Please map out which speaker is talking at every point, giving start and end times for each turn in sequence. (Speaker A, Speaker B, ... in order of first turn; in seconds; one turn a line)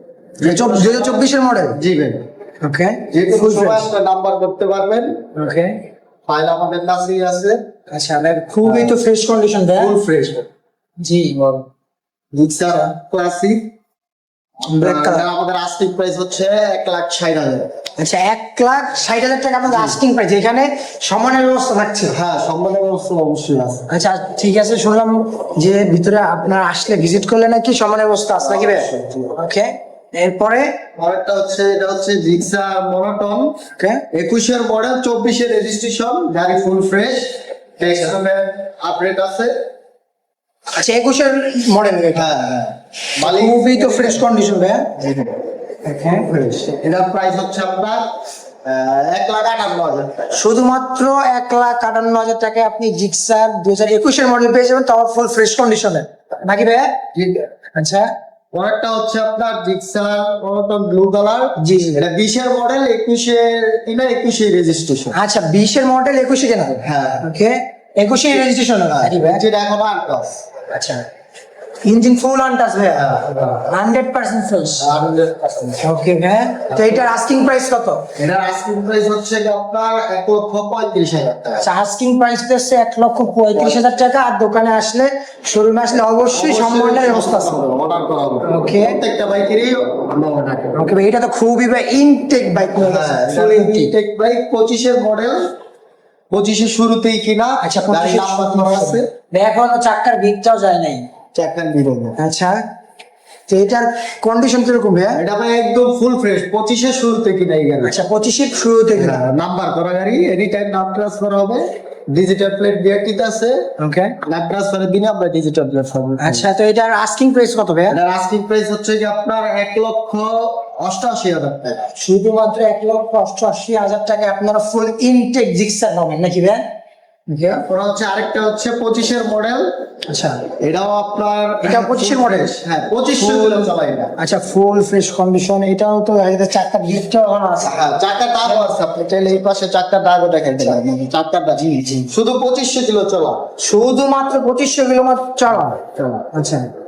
Speaker A: 0.4-2.2
Speaker B: 0.4-1.8
Speaker B: 2.6-3.9
Speaker A: 3.1-5.3
Speaker B: 5.3-5.8
Speaker A: 6.3-7.6
Speaker B: 7.9-10.0
Speaker A: 8.6-9.0
Speaker A: 9.8-10.5
Speaker B: 11.0-11.4
Speaker A: 11.3-11.6
Speaker A: 12.3-13.7
Speaker A: 14.7-17.7
Speaker B: 14.7-15.3
Speaker B: 18.0-22.1
Speaker A: 19.7-20.0
Speaker A: 22.1-23.9
Speaker B: 23.9-30.7
Speaker A: 28.4-29.4
Speaker A: 31.0-33.5
Speaker B: 33.8-34.0
Speaker A: 34.1-39.5
Speaker B: 40.8-42.3
Speaker A: 42.1-44.2
Speaker B: 43.2-44.9
Speaker A: 45.0-45.4
Speaker B: 45.8-46.6
Speaker A: 46.5-48.1
Speaker A: 48.6-50.2
Speaker B: 50.3-57.0
Speaker A: 57.1-57.5
Speaker B: 57.7-58.1
Speaker A: 58.5-65.2
Speaker B: 61.6-62.0
Speaker B: 65.1-69.4
Speaker A: 66.8-67.2
Speaker A: 68.9-70.4
Speaker B: 70.7-71.0
Speaker B: 71.8-74.9
Speaker A: 72.9-73.6
Speaker A: 74.8-75.9
Speaker B: 75.8-78.0
Speaker A: 76.7-77.1
Speaker A: 78.2-81.7
Speaker B: 81.6-87.6
Speaker A: 83.5-83.8
Speaker A: 86.3-90.8
Speaker B: 88.5-89.0
Speaker B: 90.8-93.9
Speaker A: 92.8-95.5
Speaker A: 96.3-99.1
Speaker B: 97.6-101.1
Speaker A: 101.3-102.2
Speaker B: 102.2-102.6
Speaker B: 103.5-105.2
Speaker A: 105.1-108.0
Speaker B: 107.8-109.2
Speaker A: 109.0-113.7
Speaker B: 113.8-114.2
Speaker A: 114.2-116.5
Speaker B: 116.2-118.0
Speaker A: 117.9-121.9
Speaker B: 122.0-126.6
Speaker B: 127.3-127.6
Speaker A: 127.5-129.8
Speaker B: 130.1-130.4
Speaker A: 130.6-134.2
Speaker B: 131.6-132.6
Speaker B: 133.2-137.8
Speaker A: 137.7-143.4
Speaker B: 138.4-138.7
Speaker B: 141.6-142.1
Speaker B: 143.6-145.8
Speaker A: 145.5-146.3
Speaker B: 146.3-146.7